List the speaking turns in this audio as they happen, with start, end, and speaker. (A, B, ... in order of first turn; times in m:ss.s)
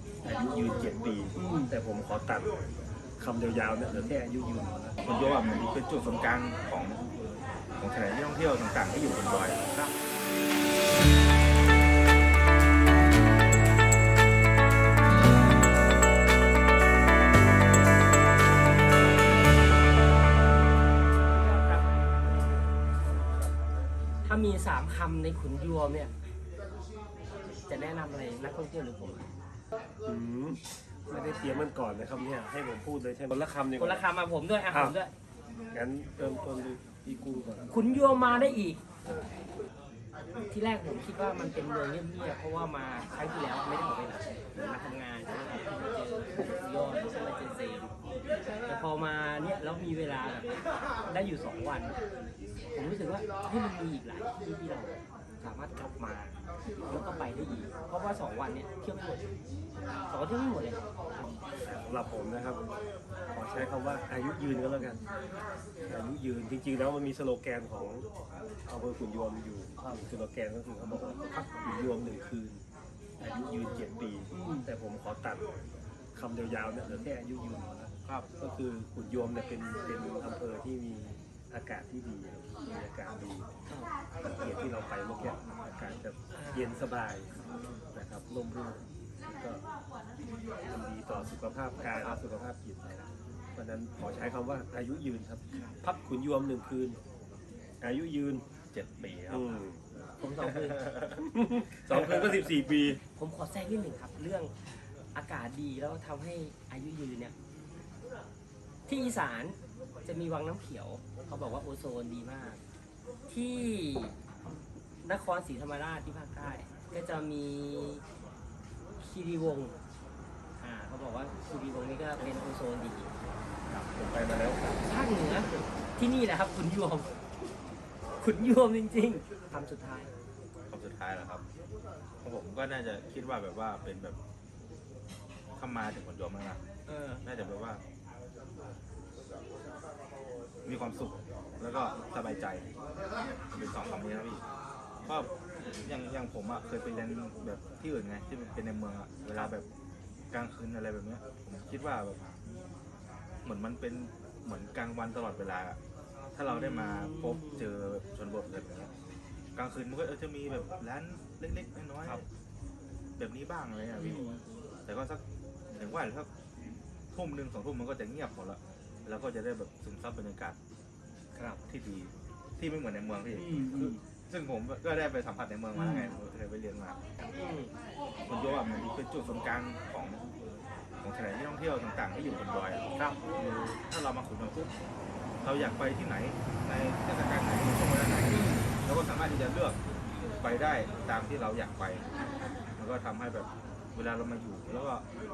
0:00.2-0:02.5 A
0:01.4-0:01.7 B
0:03.2-0:05.0 A
0:05.0-0:07.0 C
0:07.8-0:09.6 C
0:21.4-0:21.8 B
0:24.2-0:26.1 B
0:27.7-0:29.3 B
0:30.0-0:34.0 A
0:33.8-0:35.1 B
0:35.7-0:38.6 A
0:37.7-0:38.8 B
0:40.5-0:47.9 B
0:48.6-0:50.5 B
0:51.0-0:52.0 B
0:52.7-0:59.3 B
1:00.1-1:00.8 B
1:01.6-1:02.6 A
1:03.3-1:05.0 A
1:05.8-1:08.0 A
1:08.6-1:12.6 A
1:09.8-1:10.1 B
1:13.2-1:15.4 A
1:14.3-1:14.7 B
1:16.1-1:23.5 A
1:24.2-1:27.3 A
1:26.3-1:26.8 B
1:27.9-1:29.6 A
1:30.6-1:37.0 A
1:37.8-1:38.4 A
1:38.7-1:39.5 C
1:39.3-1:39.8 A
1:40.2-1:40.8 B
1:40.4-1:41.1 C
1:41.2-1:43.0 A
1:43.1-1:47.3 B
1:48.9-1:52.6 B
1:53.3-1:54.2 B
1:55.0-1:58.0 B
1:59.0-1:59.7 B
2:00.6-2:03.1 B
2:03.7-2:04.8 A
2:04.7-2:07.1 B
2:08.2-2:10.1 B
2:10.7-2:11.4 C
2:12.2-2:14.2 C
2:15.6-2:16.6 C
2:16.9-2:17.2 B
2:17.2-2:17.8 C
2:20.6-2:22.7 C
2:23.5-2:24.4 C
2:25.0-2:25.3 C
2:25.8-2:29.6 C
2:30.3-2:32.2 C
2:33.4-2:35.8 C
2:36.3-2:38.9 C
2:36.5-2:37.7 B
2:39.5-2:42.2 C
2:43.2-2:44.2 C
2:44.0-2:44.4 B
2:44.8-2:45.2 C
2:45.7-2:46.3 C
2:47.1-2:50.6 C
2:51.3-2:51.6 B
2:51.7-2:57.0 C
2:53.3-2:54.0 B
2:55.7-2:56.2 B
2:57.3-2:57.7 B
2:58.2-3:00.2 C
3:01.0-3:04.7 C
3:03.0-3:03.3 B
3:05.4-3:09.8 C
3:08.3-3:08.7 B
3:10.4-3:12.1 C
3:12.8-3:15.0 C